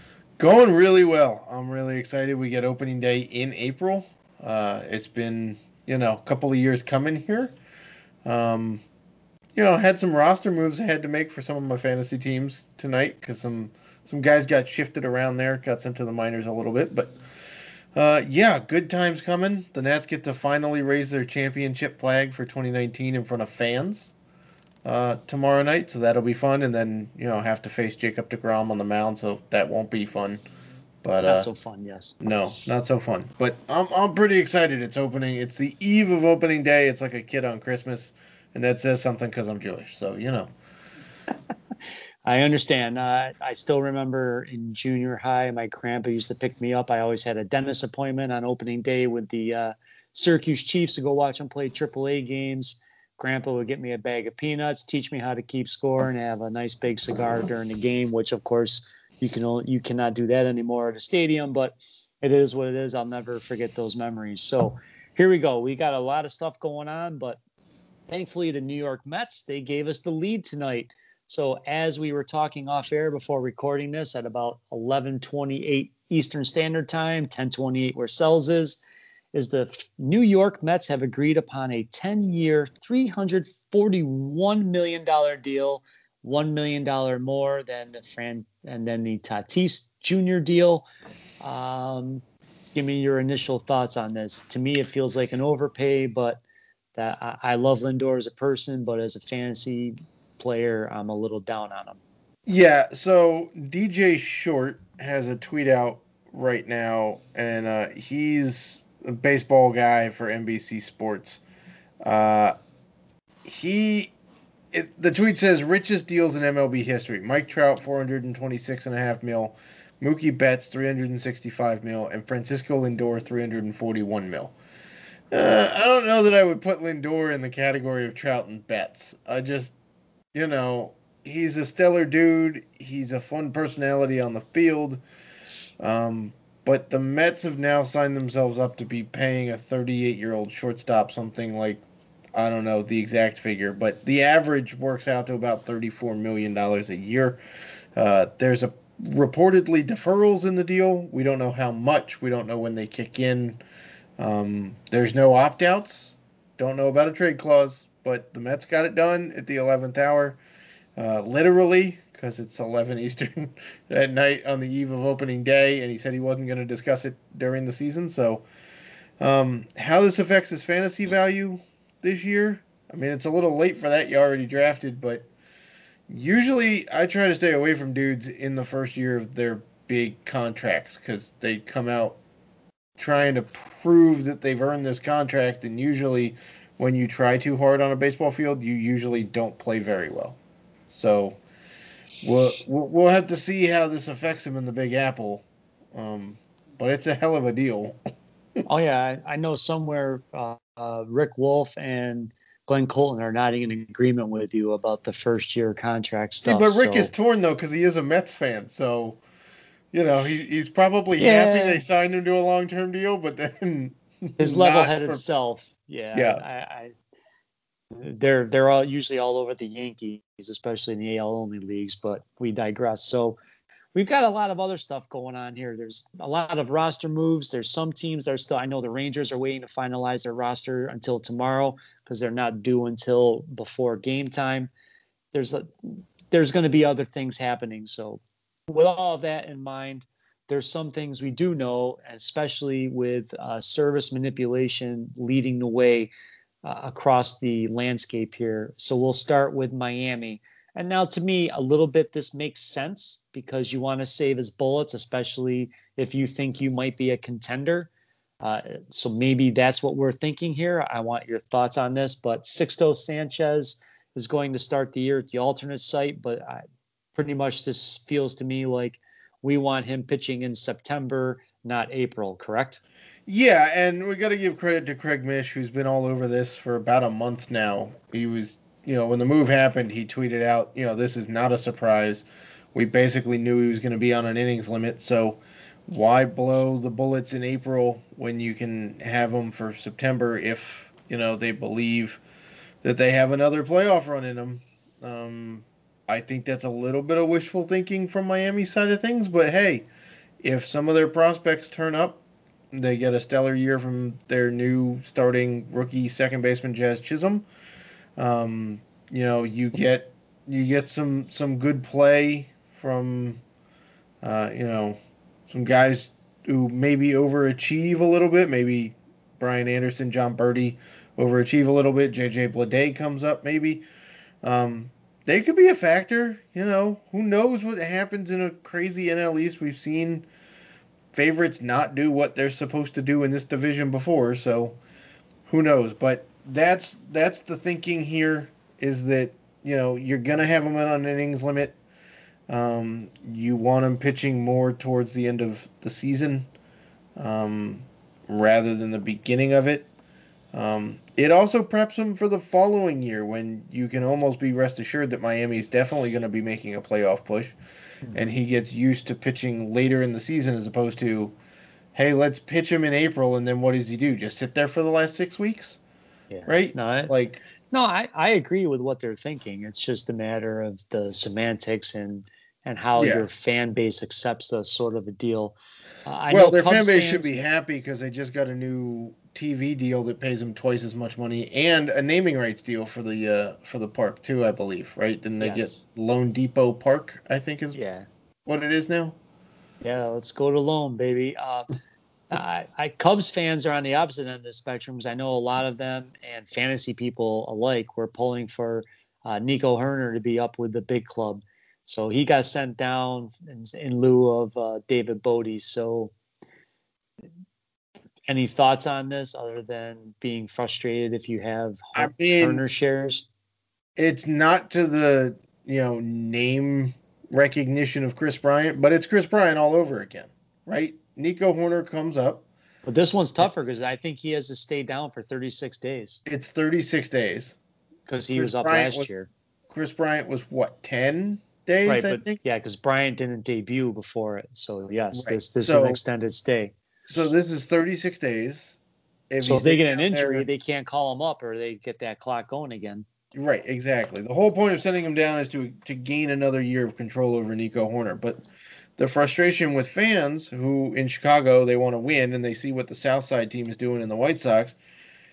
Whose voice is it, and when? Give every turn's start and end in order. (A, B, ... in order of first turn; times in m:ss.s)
0:00.4-0:07.5 A
0:08.2-0:08.8 A
0:09.6-0:17.1 A
0:17.9-0:24.1 A
0:24.8-0:30.4 A
0:31.0-0:31.5 A
0:31.2-0:32.2 B
0:32.2-0:40.5 A
0:42.2-1:07.4 B
1:08.1-1:18.8 B
1:19.3-1:30.9 B
1:31.4-1:36.4 B
1:36.9-1:42.0 B
1:42.4-1:51.4 A
1:52.0-1:52.6 A
1:53.4-1:54.1 A
1:54.7-2:04.5 A
2:05.3-2:09.7 A
2:10.3-2:15.0 A
2:15.8-2:21.8 A
2:22.3-2:27.4 A
2:28.0-2:33.6 A
2:34.2-2:40.4 A
2:41.0-2:48.4 A
2:49.2-2:55.3 A
2:56.1-3:02.2 A
3:03.0-3:11.4 A
3:12.2-3:18.0 A
3:18.7-3:27.1 B
3:26.4-3:29.2 A
3:29.9-3:35.2 A
3:31.2-3:31.8 B
3:34.4-3:36.9 B
3:36.1-3:36.4 A
3:37.9-3:43.4 B
3:43.9-3:54.7 B
3:55.3-4:06.1 B
4:06.6-4:17.9 B
4:18.4-4:26.6 B
4:27.2-4:32.8 B
4:33.3-4:52.2 A
4:52.8-4:59.9 A
5:00.4-5:07.4 A
5:08.2-5:13.4 A
5:14.2-5:23.8 A
5:24.4-5:30.3 A
5:31.1-5:34.8 A
5:35.4-5:41.8 A
5:42.5-5:46.5 A
5:47.2-5:49.9 A
5:50.5-5:57.6 A
5:58.1-6:01.4 A
6:01.9-6:05.8 A
6:06.3-6:07.1 B
6:06.5-6:07.4 A
6:07.7-6:17.4 B
6:13.0-6:13.3 A
6:16.3-6:27.8 A
6:25.4-6:25.8 B
6:27.7-6:28.1 B
6:28.4-6:29.2 A
6:29.8-6:31.7 B
6:32.3-6:46.1 B
6:48.3-6:53.3 B
6:51.9-6:52.6 A
6:54.0-7:02.4 A
7:02.8-7:06.2 B
7:06.2-7:07.6 A
7:08.1-7:09.3 B
7:08.3-7:09.1 A
7:09.7-7:12.4 A
7:11.8-7:16.7 B
7:15.1-7:16.0 A
7:17.1-7:18.8 A
7:19.3-7:20.4 A
7:19.4-7:23.0 B
7:23.3-7:28.4 A
7:29.0-7:34.8 A